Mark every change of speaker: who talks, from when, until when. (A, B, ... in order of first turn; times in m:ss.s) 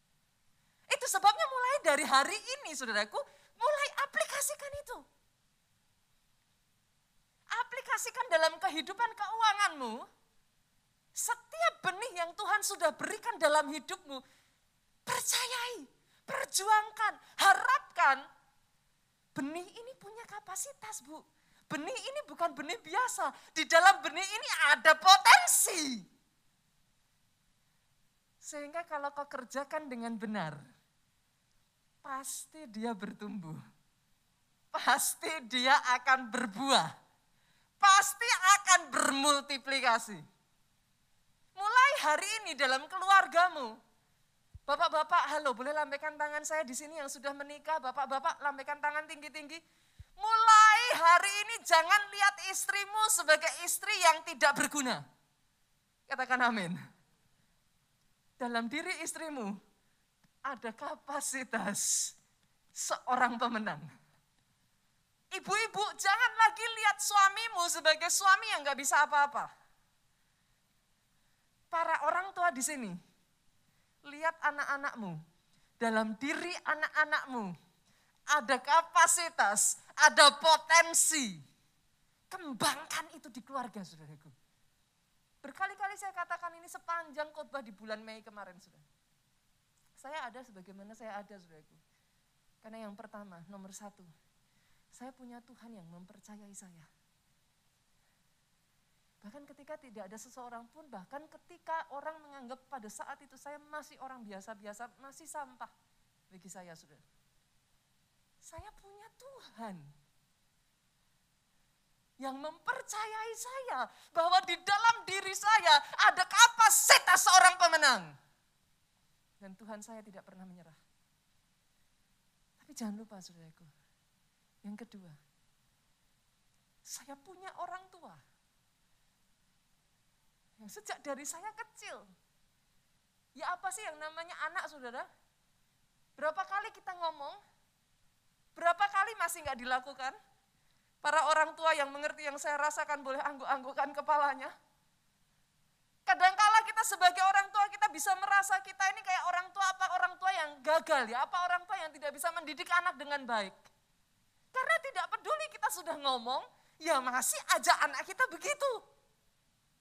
0:00.9-0:05.0 A
0:07.5-0:10.1 A
0:11.2-0:14.2 A
0:15.1-0:18.3 A
0:19.4-0:26.1 A
0:28.4-0:30.6 A
0:32.0-0:33.6 A
0:34.7-0:36.9 A
0:37.8-0:40.2 A
0:41.6-0:43.8 A
0:44.7-0:49.6 A
0:50.2-0:55.0 A
0:56.1-0:56.8 A
0:58.4-0:59.6 A
1:00.5-1:02.2 A
1:02.7-1:03.9 A
1:05.3-1:09.5 A
1:11.7-1:13.0 A
1:14.1-1:15.2 A
1:15.8-1:17.6 A
1:18.3-1:21.4 A
1:22.3-1:24.3 A
1:25.4-1:28.8 A
1:30.0-1:31.8 A
1:32.6-1:34.1 A
1:34.9-1:36.9 A
1:39.2-1:45.7 A
1:46.3-1:47.0 A
1:48.4-1:49.9 A
1:52.2-1:58.2 A
1:59.4-2:00.8 A
2:02.6-2:03.7 A
2:04.6-2:05.2 A
2:06.8-2:08.2 A
2:10.6-2:12.1 A
2:13.4-2:15.1 A
2:16.2-2:17.4 A
2:18.6-2:20.2 A
2:21.0-2:24.5 A
2:26.1-2:33.7 A
2:34.5-2:38.8 A